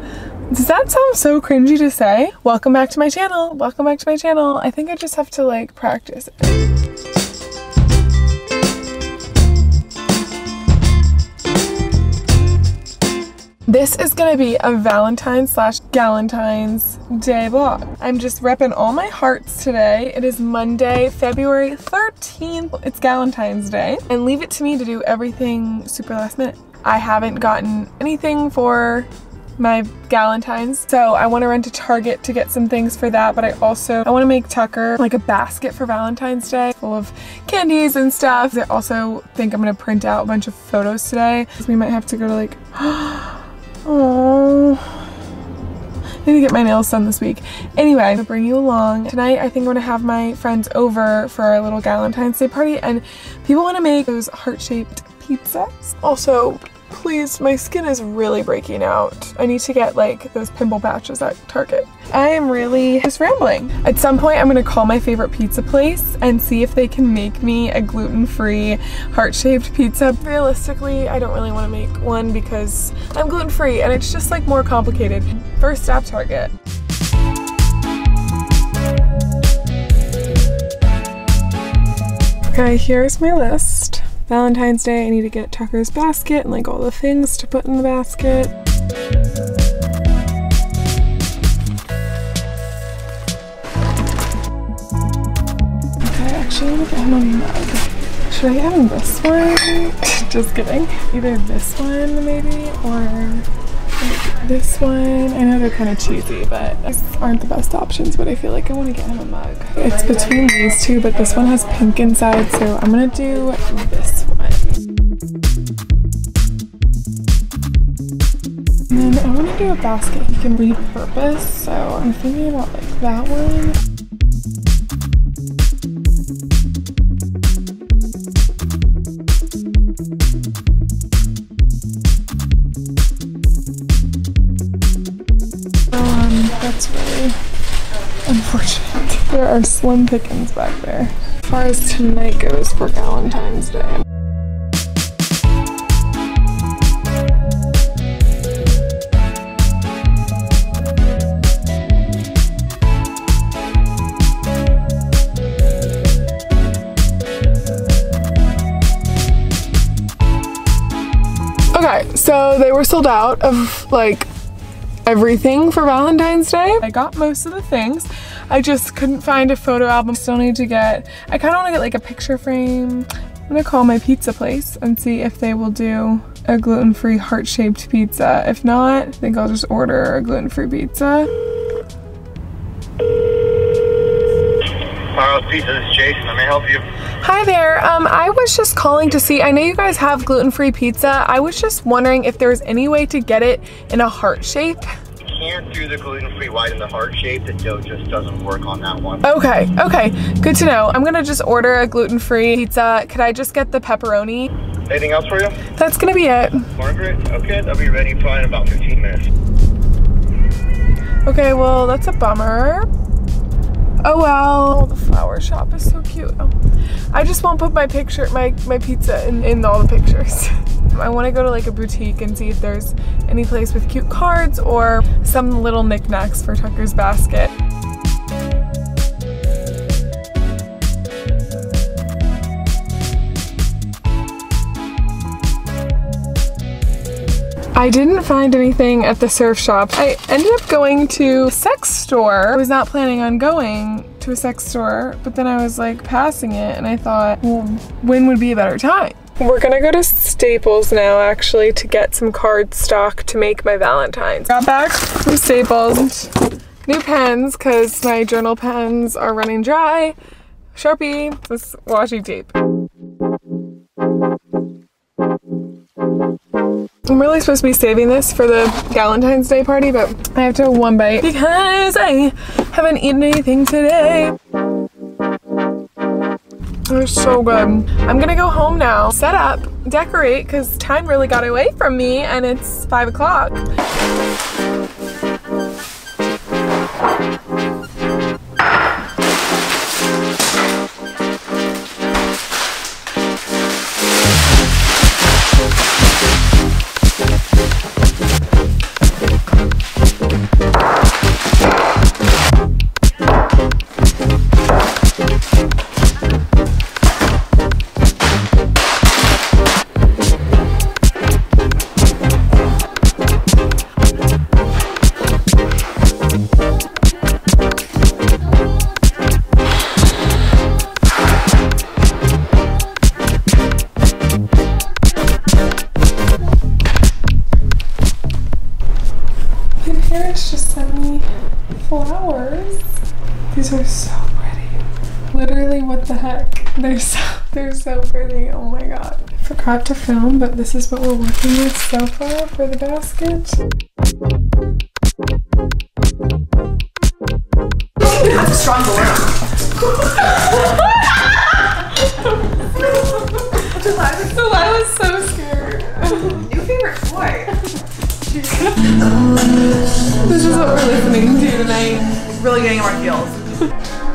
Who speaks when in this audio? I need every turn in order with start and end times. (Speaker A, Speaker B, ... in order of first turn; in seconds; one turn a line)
Speaker A: 0.5-6.6
Speaker A: 13.7-45.1
Speaker A: 46.2-76.5
Speaker A: 82.5-88.5
Speaker A: 96.0-103.5
Speaker A: 104.0-114.8
Speaker A: 118.9-123.8
Speaker A: 135.9-137.4
Speaker A: 138.2-144.0
Speaker A: 161.7-164.3
Speaker A: 165.1-181.3
Speaker B: 185.2-186.8
Speaker A: 187.2-194.9
Speaker B: 195.4-199.2
Speaker A: 199.2-204.5
Speaker B: 204.9-205.6
Speaker A: 205.8-206.7
Speaker B: 206.8-209.2
Speaker A: 211.3-212.9
Speaker A: 214.0-216.5
Speaker A: 217.1-227.5
Speaker A: 237.8-256.3
Speaker A: 256.9-260.2
Speaker A: 260.8-262.5
Speaker A: 267.1-274.4
Speaker A: 276.9-283.6
Speaker A: 329.8-332.9
Speaker A: 333.5-334.8
Speaker A: 335.3-343.6
Speaker C: 348.0-349.3
Speaker A: 350.2-351.2
Speaker A: 353.1-353.6
Speaker C: 353.6-354.6
Speaker A: 354.3-356.4
Speaker C: 356.1-357.5
Speaker C: 358.3-359.0
Speaker A: 360.1-362.1
Speaker C: 362.3-363.4